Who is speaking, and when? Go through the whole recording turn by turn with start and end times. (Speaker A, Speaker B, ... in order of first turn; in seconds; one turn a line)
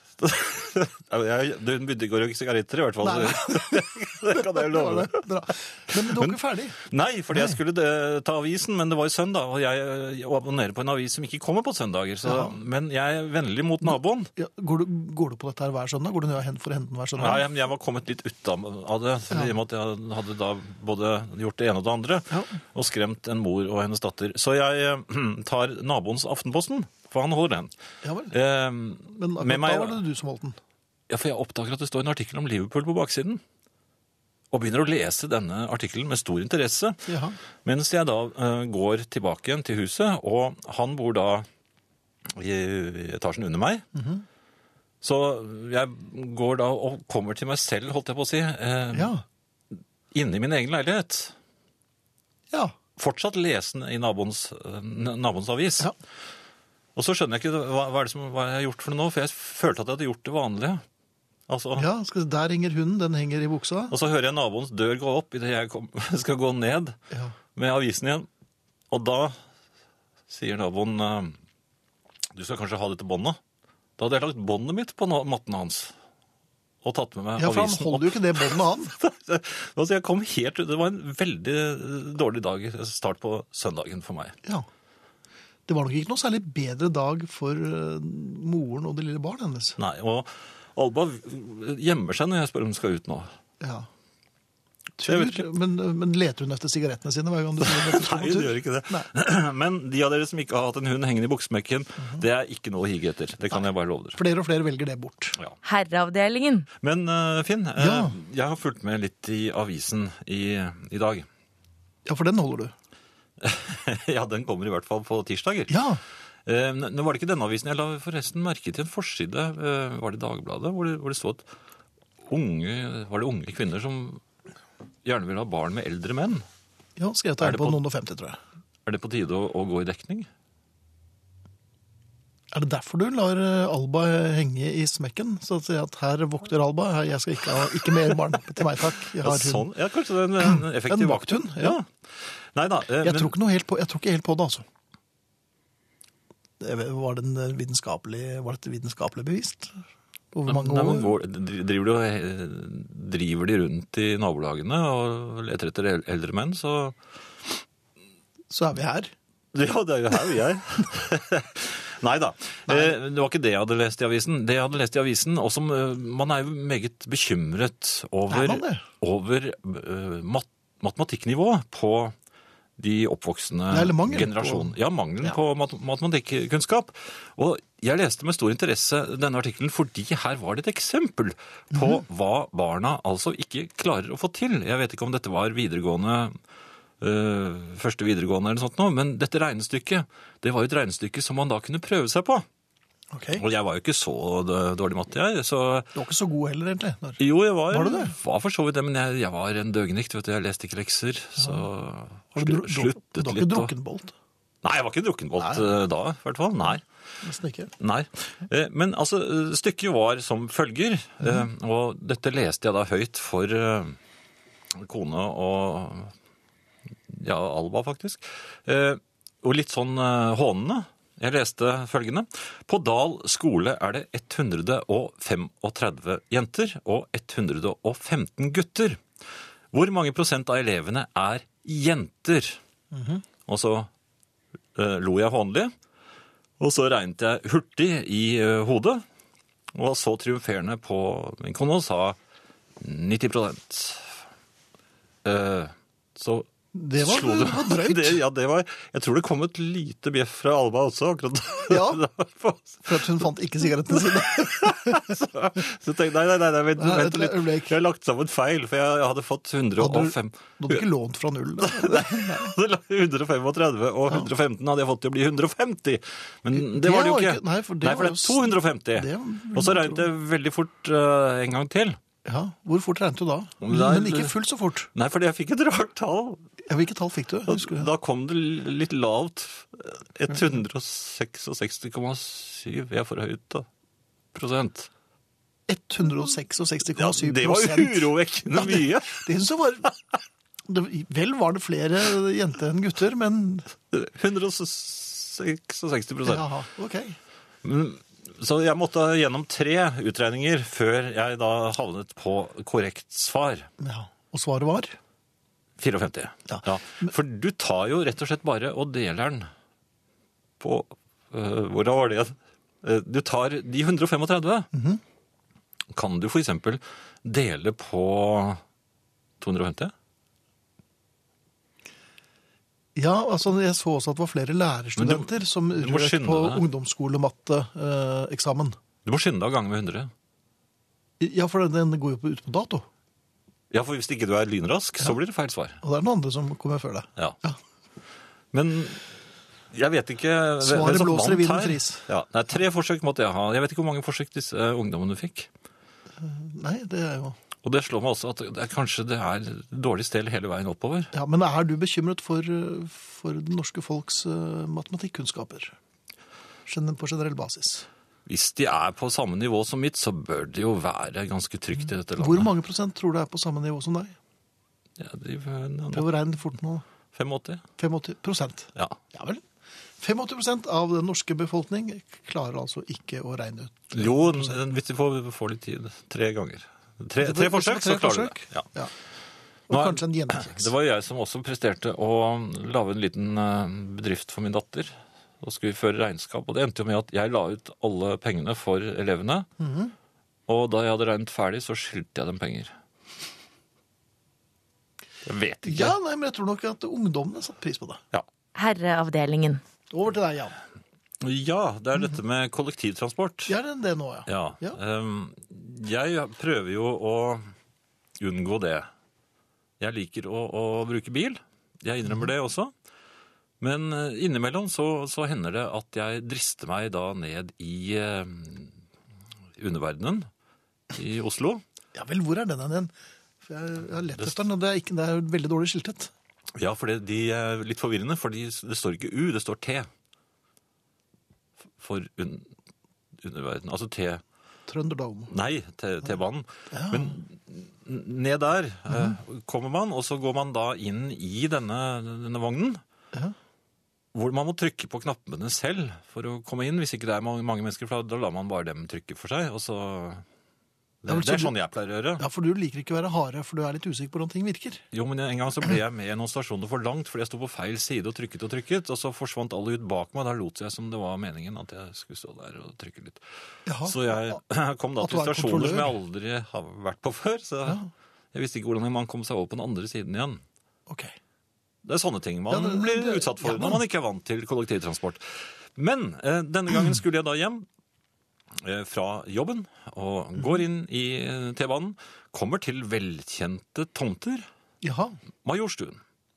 Speaker A: 0.2-5.2
Speaker B: 3.0-6.8
Speaker A: 5.9-14.3
Speaker B: 12.2-12.5
Speaker B: 14.3-17.4
Speaker A: 17.1-27.7
Speaker B: 28.0-28.3
Speaker A: 28.3-30.0
Speaker B: 29.1-30.6
Speaker A: 31.1-33.4
Speaker A: 34.5-37.1
Speaker B: 37.1-37.4
Speaker A: 37.6-41.5
Speaker A: 42.3-43.8
Speaker B: 43.9-44.2
Speaker A: 45.0-49.1
Speaker B: 48.9-49.2
Speaker A: 49.7-51.3
Speaker A: 53.0-55.9
Speaker A: 57.0-60.8
Speaker A: 61.5-61.9
Speaker B: 61.8-63.9
Speaker A: 63.9-67.0
Speaker A: 67.5-68.3
Speaker A: 68.9-69.4
Speaker A: 70.3-71.4
Speaker A: 72.3-73.4
Speaker A: 74.0-75.9
Speaker A: 76.8-84.4
Speaker B: 77.4-78.9
Speaker B: 85.7-89.8
Speaker A: 89.8-93.3
Speaker B: 93.6-93.9
Speaker B: 95.0-99.1
Speaker A: 95.0-95.4
Speaker A: 97.6-104.2
Speaker B: 104.2-105.4
Speaker C: 105.6-106.7
Speaker A: 106.8-111.3
Speaker B: 107.8-108.2
Speaker B: 112.0-112.7
Speaker A: 113.4-115.8
Speaker B: 115.7-116.0
Speaker A: 116.5-121.4
Speaker A: 122.2-124.2
Speaker A: 125.0-126.5
Speaker B: 127.0-128.4
Speaker A: 127.4-127.8
Speaker A: 128.8-130.3
Speaker B: 132.5-139.7
Speaker A: 139.1-143.3
Speaker B: 140.5-141.8
Speaker B: 143.0-144.6
Speaker B: 146.6-149.7
Speaker B: 150.3-151.1
Speaker A: 150.5-157.0
Speaker B: 158.5-159.1
Speaker A: 159.5-172.1
Speaker B: 162.7-162.9
Speaker B: 168.3-168.8
Speaker A: 172.8-186.4
Speaker B: 173.7-174.7
Speaker A: 187.0-192.4
Speaker B: 193.1-193.4
Speaker A: 193.3-195.9
Speaker B: 195.9-198.1
Speaker A: 197.2-203.7
Speaker B: 202.3-204.1
Speaker A: 204.6-206.8
Speaker B: 207.2-207.7
Speaker A: 207.8-214.0
Speaker A: 214.7-216.1
Speaker A: 217.1-229.0
Speaker A: 229.7-232.6
Speaker B: 232.9-233.2
Speaker A: 233.4-233.9
Speaker A: 234.7-235.7
Speaker A: 236.6-239.0
Speaker A: 239.7-242.2
Speaker A: 242.8-244.2
Speaker A: 245.2-246.5
Speaker B: 246.7-248.2
Speaker A: 247.0-253.2
Speaker B: 251.7-252.0
Speaker B: 252.8-255.1
Speaker A: 253.9-260.8
Speaker B: 256.8-257.7
Speaker B: 259.8-262.5
Speaker A: 261.6-272.0
Speaker B: 266.5-270.1
Speaker B: 272.2-274.9
Speaker A: 273.6-274.3
Speaker A: 274.9-276.4
Speaker B: 276.6-277.9
Speaker A: 277.5-283.7
Speaker A: 284.3-284.9
Speaker B: 285.7-289.9
Speaker A: 286.9-289.2
Speaker B: 290.6-293.7
Speaker A: 293.9-296.5
Speaker B: 296.2-297.2
Speaker A: 297.6-303.7
Speaker B: 303.8-305.0
Speaker A: 305.8-309.5
Speaker B: 306.5-307.1
Speaker A: 310.6-314.7
Speaker B: 314.7-315.0
Speaker A: 315.9-318.6
Speaker A: 319.4-319.9
Speaker B: 322.9-328.8
Speaker A: 324.9-326.6
Speaker A: 329.0-330.1
Speaker B: 331.2-332.9
Speaker A: 333.7-335.8
Speaker B: 335.8-337.6
Speaker A: 338.5-339.1
Speaker A: 339.7-345.5
Speaker B: 340.6-342.1
Speaker B: 346.2-347.4
Speaker A: 347.6-351.1
Speaker B: 351.1-355.7
Speaker B: 356.6-357.9
Speaker A: 358.2-362.5
Speaker B: 362.2-364.1
Speaker A: 365.0-366.1
Speaker B: 365.9-366.8
Speaker A: 367.1-367.6
Speaker B: 367.8-369.4
Speaker B: 370.0-374.6
Speaker A: 373.9-378.7
Speaker B: 377.2-378.9
Speaker B: 379.7-380.7
Speaker A: 379.7-389.5
Speaker B: 389.6-389.9
Speaker A: 390.5-392.7
Speaker A: 395.2-396.0
Speaker B: 395.6-398.0
Speaker C: 398.5-399.6
Speaker B: 399.9-400.6
Speaker A: 401.2-403.5
Speaker B: 403.5-404.8
Speaker A: 404.3-407.4
Speaker A: 408.2-408.9
Speaker A: 409.8-412.7
Speaker A: 413.6-418.7
Speaker A: 419.6-420.3
Speaker A: 420.9-421.6
Speaker B: 421.9-422.9
Speaker B: 423.4-426.1
Speaker A: 426.5-429.9
Speaker A: 431.8-432.5
Speaker A: 433.2-434.2
Speaker B: 434.7-435.3
Speaker A: 435.3-442.8
Speaker B: 436.7-437.1
Speaker A: 444.1-450.2
Speaker A: 451.0-452.2
Speaker B: 451.1-451.5
Speaker B: 452.2-454.8
Speaker A: 454.9-463.2
Speaker B: 463.6-464.4
Speaker A: 463.8-467.8
Speaker B: 465.0-465.9
Speaker A: 468.3-470.4
Speaker B: 470.9-471.1
Speaker A: 471.8-477.6
Speaker B: 472.5-473.8
Speaker A: 478.5-484.5
Speaker B: 484.8-485.2
Speaker A: 485.4-486.0